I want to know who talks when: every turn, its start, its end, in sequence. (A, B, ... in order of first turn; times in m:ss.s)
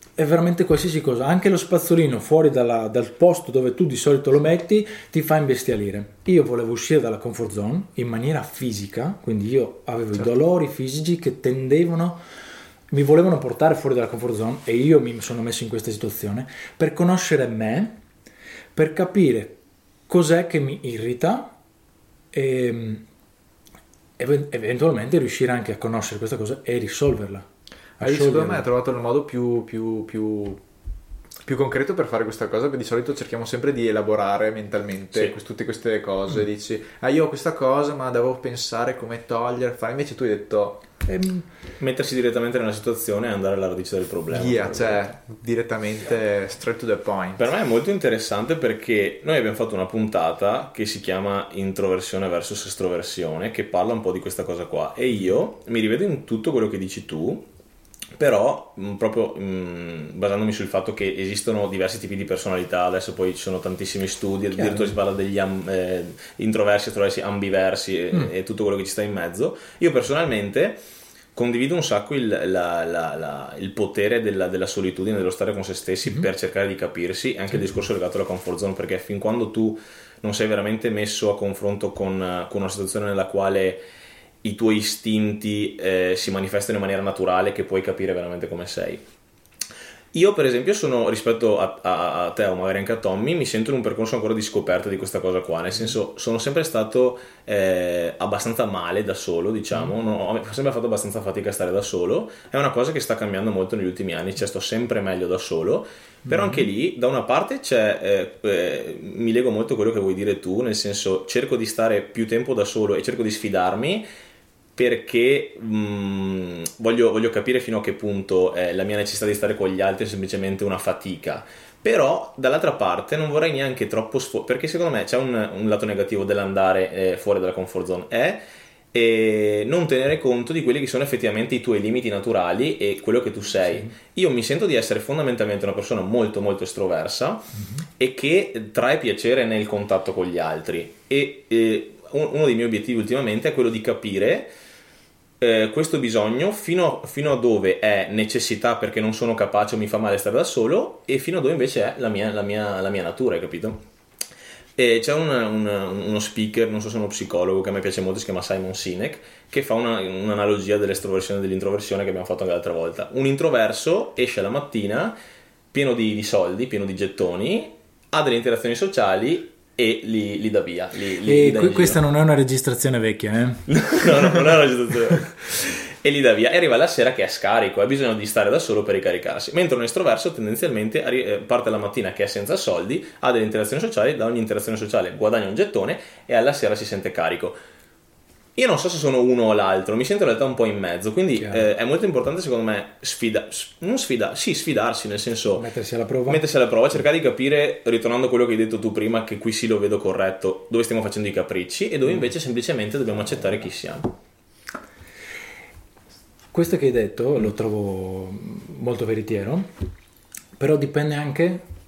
0:00.2-0:12.2 A
0:12.9-0:18.0 A
0:18.8-0:21.5 A
0:22.3-0:23.0 A
0:24.2-0:27.5 A
0:28.0-0:28.7 A
0:28.0-0:30.6 B
0:31.4-0:40.8 B
0:41.1-0:41.4 A
0:41.8-0:45.0 C
0:44.3-0:47.5 B
0:47.4-0:57.5 C
0:58.2-1:10.8 C
1:04.6-1:05.0 A
1:11.4-1:23.8 C
1:24.4-1:29.0 C
1:30.1-1:54.1 C
1:46.3-1:46.7 A
1:54.8-2:24.5 C
2:13.5-2:13.9 A
2:17.6-2:17.8 A
2:25.4-2:33.8 C
2:34.8-2:45.2 C
2:45.7-2:52.0 C
2:51.2-2:53.6 A
2:53.7-3:07.6 C
3:08.6-3:15.7 C
3:11.4-3:11.7 A
3:15.5-3:16.4 A
3:16.3-3:24.1 C
3:26.5-3:29.7 A
3:30.6-3:31.6 A